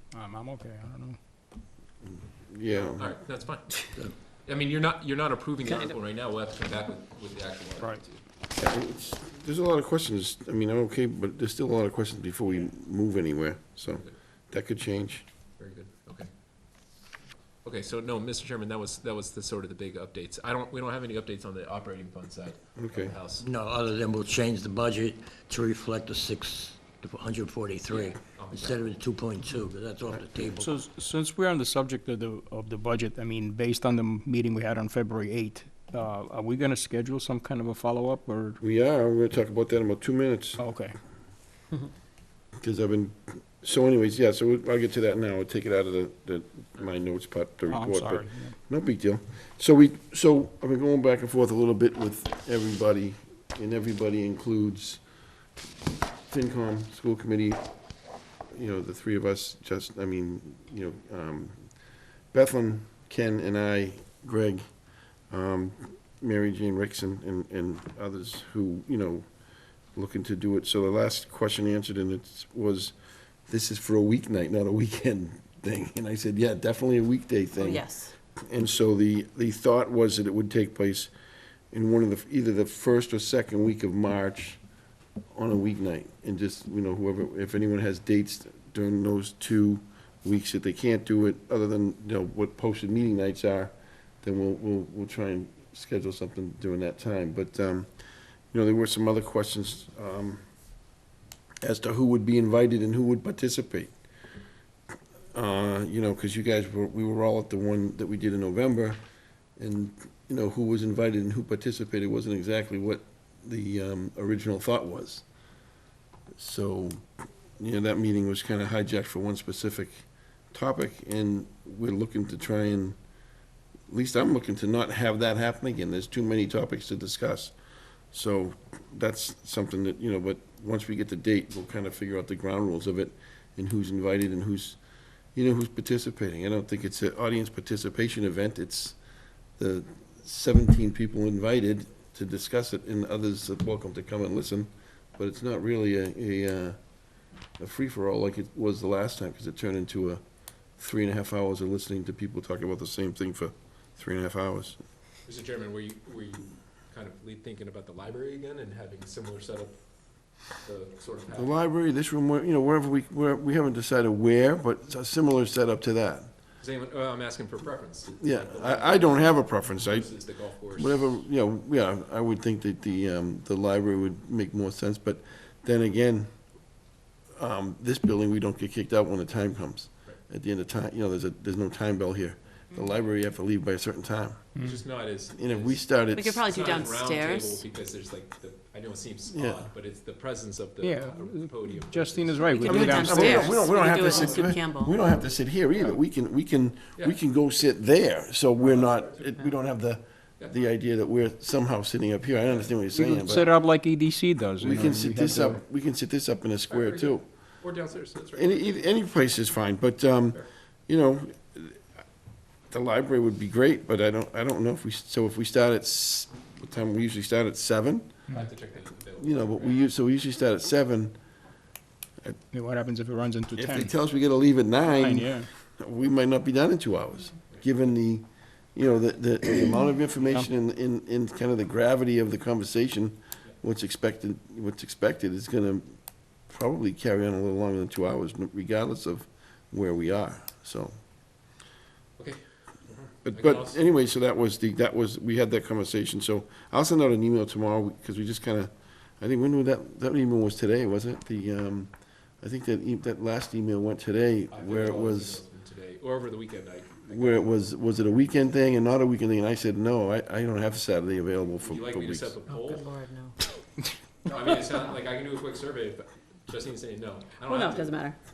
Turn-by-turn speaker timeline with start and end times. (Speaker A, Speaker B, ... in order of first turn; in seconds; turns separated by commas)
Speaker A: 0.1-1.2, Speaker B: 2.0-3.1, Speaker C: 2.7-8.2, Speaker D: 5.7-5.9, Speaker B: 8.6-15.2, Speaker C: 15.6-16.3, Speaker C: 17.6-23.4, Speaker B: 22.8-23.1, Speaker E: 23.4-30.7, Speaker C: 27.9-28.8, Speaker A: 30.6-38.6, Speaker B: 38.6-40.6, Speaker A: 40.6-41.0, Speaker B: 42.6-55.0, Speaker A: 47.7-48.5, Speaker B: 56.3-57.6, Speaker B: 58.5-61.5, Speaker B: 62.3-64.6, Speaker B: 65.3-69.2, Speaker B: 69.9-72.9, Speaker B: 73.5-77.8, Speaker D: 77.6-78.1, Speaker B: 78.5-81.1, Speaker B: 81.7-84.6, Speaker B: 85.3-93.7, Speaker B: 94.2-97.9, Speaker B: 98.5-100.4, Speaker B: 101.6-103.9, Speaker B: 105.3-109.0, Speaker B: 109.6-115.2, Speaker B: 116.3-117.0, Speaker B: 117.6-122.9, Speaker B: 123.9-127.5, Speaker B: 128.1-134.8, Speaker B: 135.3-138.9, Speaker B: 139.6-146.8, Speaker B: 147.6-150.2, Speaker B: 150.8-154.8, Speaker C: 155.2-159.8, Speaker C: 160.6-161.5, Speaker B: 161.3-166.3, Speaker C: 166.6-171.2, Speaker B: 168.2-170.1, Speaker B: 170.7-176.3, Speaker B: 177.4-184.4, Speaker A: 184.6-184.8, Speaker C: 184.6-185.8, Speaker B: 185.3-186.5, Speaker D: 186.1-187.6, Speaker C: 186.4-194.6, Speaker B: 189.3-189.6, Speaker A: 190.8-193.5, Speaker D: 192.5-194.9, Speaker B: 192.6-203.4, Speaker C: 198.6-199.3, Speaker C: 202.5-202.7, Speaker A: 202.9-205.6, Speaker B: 204.6-207.2, Speaker C: 206.7-208.7, Speaker B: 208.3-211.8, Speaker B: 212.7-218.1, Speaker C: 218.3-219.8, Speaker B: 219.2-221.2, Speaker A: 222.5-223.9, Speaker B: 223.6-235.9, Speaker A: 224.9-225.5, Speaker B: 236.5-240.9, Speaker C: 242.2-243.8, Speaker B: 243.2-251.9, Speaker B: 252.4-255.4, Speaker C: 254.5-257.6, Speaker B: 257.1-262.3, Speaker C: 261.6-262.9, Speaker D: 262.6-263.4, Speaker C: 264.2-267.9, Speaker D: 267.4-268.1